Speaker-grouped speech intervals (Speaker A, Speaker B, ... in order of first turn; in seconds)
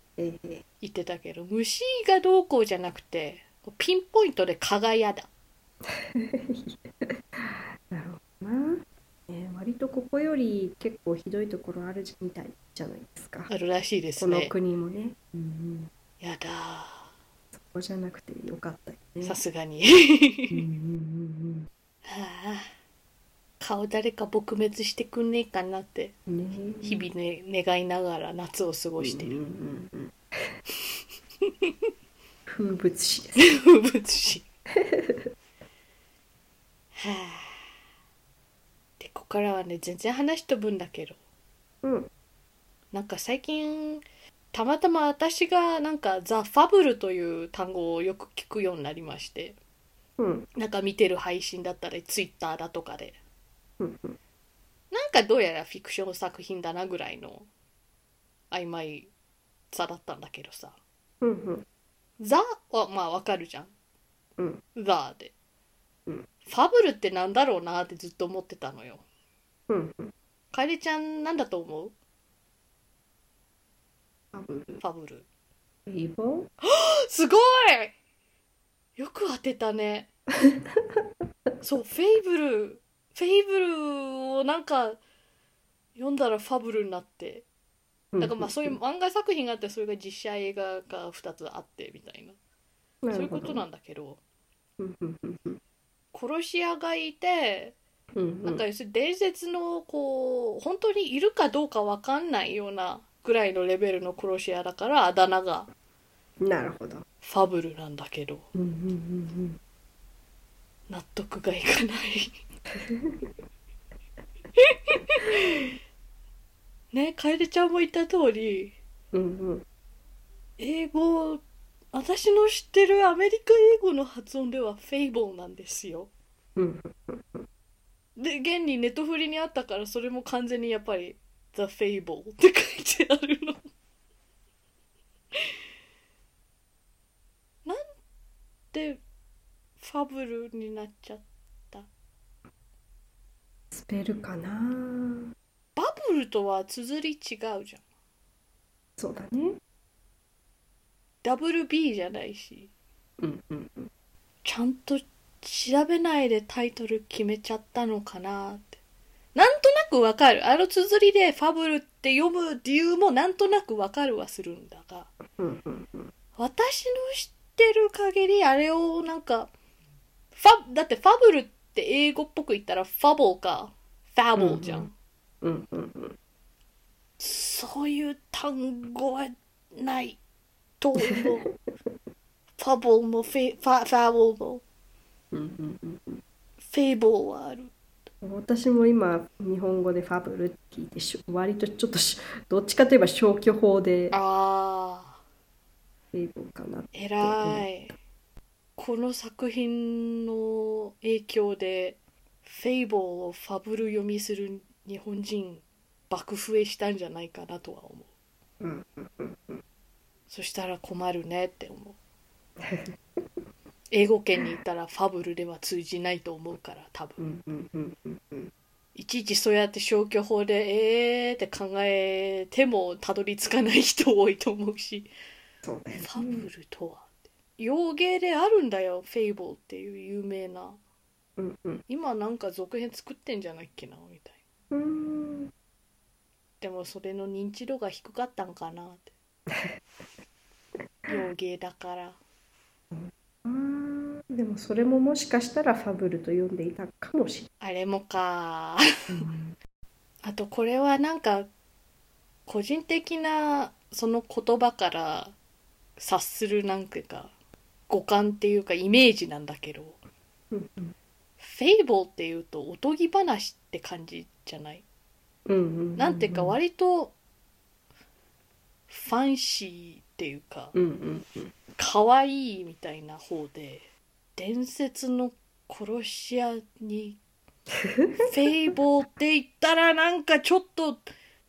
Speaker A: 0.2-0.6, 6.0-13.5, 14.2-15.9, 17.5-19.4, 20.5-21.7, 26.3-27.1, 29.0-30.6, 32.5-33.5, 34.8-35.2, 41.8-42.1, 50.2-50.5, 53.8-54.2, 61.2-61.6, 69.7-70.1, 74.3-74.8, 75.9-76.5, 80.4-81.0, 88.1-88.8, 93.0-93.7, 94.8-95.6, 98.2-98.6, 106.4-107.0, 108.5-109.6, 112.8-113.3, 119.1-119.6, 126.6-127.5, 143.7-145.3, 149.0-149.6, 153.2-153.9, 165.4-166.1, 174.4-174.9, 175.4-176.2, 181.1-181.5, 185.3-186.2, 188.2-194.2, 196.1-197.7, 208.6-209.6, 212.6-212.9, 217.2-218.5, 225.6-226.5, 231.4-231.8, 234.7-235.5, 239.5-239.8, 242.9-247.5, 249.1-249.6, 260.5-260.9, 265.5-266.6, 270.7-271.5, 277.8-278.3
Speaker B: 0.8-5.3, 13.5-14.5, 16.2-17.1, 19.2-20.7, 22.1-22.7, 23.6-26.1, 26.8-29.4, 31.5-31.7, 33.4-34.5, 37.0-37.6, 39.0-41.2, 42.9-49.6, 50.6-53.2, 54.9-57.5, 58.5-59.1, 59.7-60.8, 62.2-63.7, 64.8-65.3, 66.5-69.0, 70.5-71.9, 74.8-75.3, 76.6-77.9, 79.0-80.1, 81.6-85.0, 86.0-87.5, 88.2-92.4, 93.1-94.2, 96.1-97.8, 98.5-105.7, 107.2-108.5, 110.9-112.4, 114.6-115.7, 116.9-118.8, 120.6-126.1, 128.2-133.6, 138.7-139.0, 139.8-141.9, 145.8-147.8, 151.2-152.7, 154.4-158.8, 159.3-165.1, 166.4-169.5, 170.3-174.9, 177.2-180.2, 180.8-181.5, 182.6-184.6, 186.7-187.7, 194.1-195.2, 196.9-197.9, 198.8-208.1, 210.3-212.0, 213.9-217.2, 219.0-225.1, 226.0-230.8, 231.9-234.4, 236.6-239.1, 241.1-242.2, 247.6-248.8, 250.2-251.5, 252.5-255.3, 256.0-257.3, 257.9-260.0, 261.4-264.8, 266.0-267.1, 268.9-270.8, 271.8-273.9, 274.4-277.2, 278.2-281.1